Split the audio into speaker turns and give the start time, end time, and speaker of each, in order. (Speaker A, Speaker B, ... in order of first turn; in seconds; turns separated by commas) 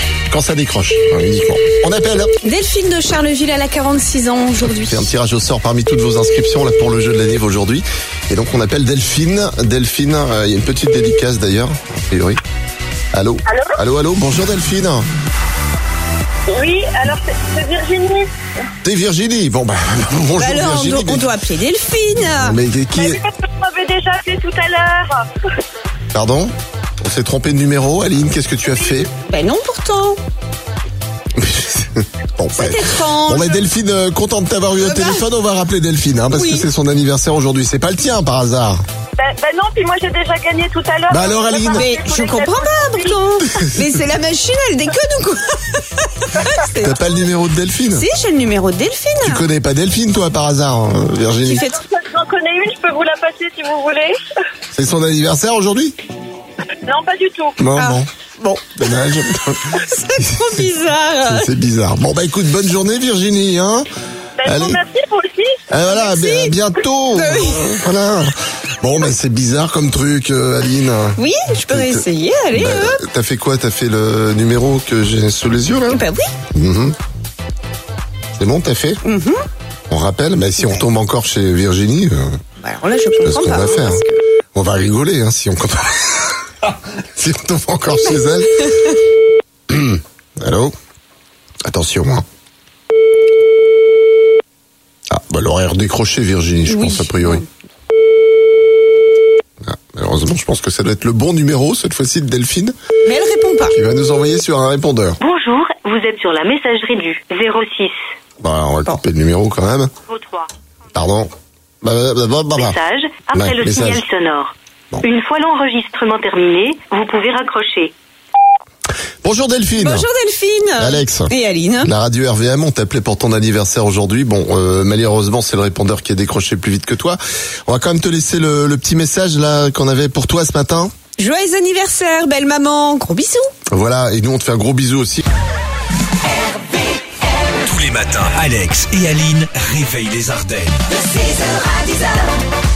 Speaker A: 0.3-2.3, Speaker B: 2.4-5.1, Speaker A: 4.6-12.4, Speaker A: 13.1-15.1, Speaker C: 13.5-13.8, Speaker C: 16.5-18.3, Speaker A: 18.8-21.3, Speaker B: 20.4-22.6, Speaker A: 22.2-23.2, Speaker C: 22.9-25.3, Speaker A: 26.1-29.1, Speaker B: 29.2-30.2, Speaker A: 31.4-38.8, Speaker B: 32.5-33.6, Speaker B: 34.8-35.2, Speaker B: 36.3-36.7, Speaker C: 39.2-43.2, Speaker A: 41.1-41.9, Speaker B: 41.7-47.2, Speaker A: 46.8-48.0, Speaker B: 47.9-49.4, Speaker A: 49.2-51.6, Speaker B: 51.4-51.8, Speaker C: 51.5-54.2, Speaker A: 54.7-56.0, Speaker C: 56.9-57.5, Speaker A: 57.6-60.6, Speaker B: 57.8-58.7, Speaker B: 59.7-61.5, Speaker A: 61.2-63.9, Speaker C: 64.4-65.6, Speaker A: 64.4-64.8, Speaker A: 65.7-71.2, Speaker B: 65.9-66.5, Speaker B: 67.1-67.8, Speaker B: 71.2-73.0, Speaker A: 71.7-76.0, Speaker B: 75.9-76.3, Speaker A: 76.5-77.0, Speaker A: 78.3-79.0, Speaker B: 79.0-79.4, Speaker A: 79.9-82.4, Speaker B: 82.6-84.2, Speaker A: 83.2-84.0, Speaker A: 84.5-88.7, Speaker A: 89.7-90.7, Speaker A: 91.7-92.2, Speaker A: 95.1-97.4, Speaker B: 96.6-97.5, Speaker A: 99.6-102.7, Speaker B: 103.0-103.8, Speaker A: 103.7-105.2, Speaker D: 105.2-108.0, Speaker A: 108.4-109.9, Speaker D: 110.1-110.5, Speaker A: 110.9-112.8, Speaker D: 112.5-117.9, Speaker A: 113.3-114.0, Speaker A: 119.2-120.1, Speaker B: 119.8-121.9, Speaker A: 120.8-130.9, Speaker B: 131.2-133.5, Speaker A: 133.7-135.2, Speaker E: 137.6-140.8